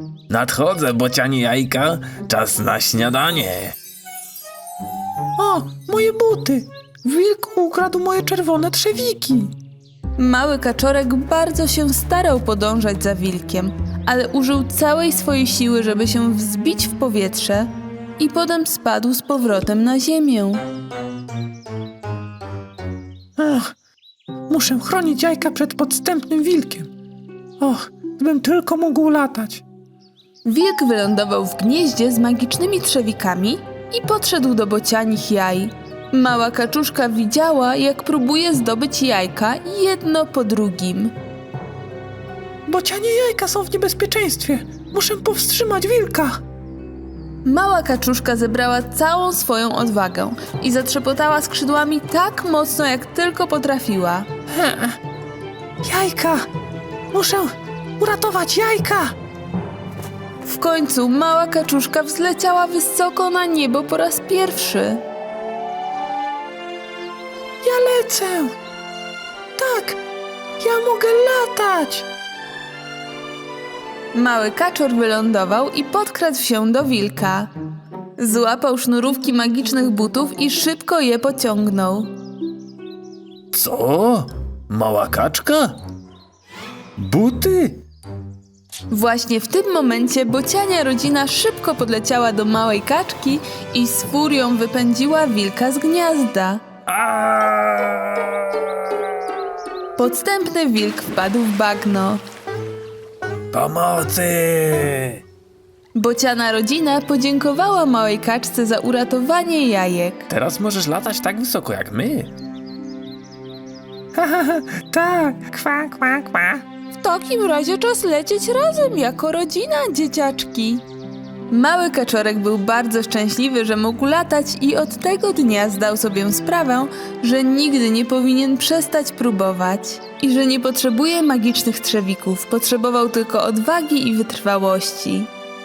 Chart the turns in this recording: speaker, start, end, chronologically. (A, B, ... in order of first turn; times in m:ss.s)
0:00.3-0:03.8 A
0:05.4-0:09.5 B
0:10.2-0:20.6 C
0:23.4-0:23.8 B
0:24.5-0:26.9 B
0:27.6-0:29.6 B
0:30.4-0:41.1 C
0:42.7-0:46.4 B
0:47.4-0:54.3 C
0:54.5-0:55.0 B
0:55.8-0:56.5 B
0:57.1-0:59.2 B
1:00.4-1:05.0 C
1:07.6-1:08.5 B
1:09.6-1:10.0 B
1:10.6-1:12.1 B
1:14.1-1:17.5 C
1:18.2-1:22.1 C
1:23.5-1:25.8 A
1:27.0-1:27.8 A
1:28.9-1:36.6 C
1:36.9-1:38.2 A
1:40.0-1:42.2 C
1:43.5-1:45.2 A
1:45.9-1:50.3 C
1:50.3-1:52.3 A
1:54.2-1:56.6 B
1:56.9-2:00.8 C
2:01.5-2:15.3 C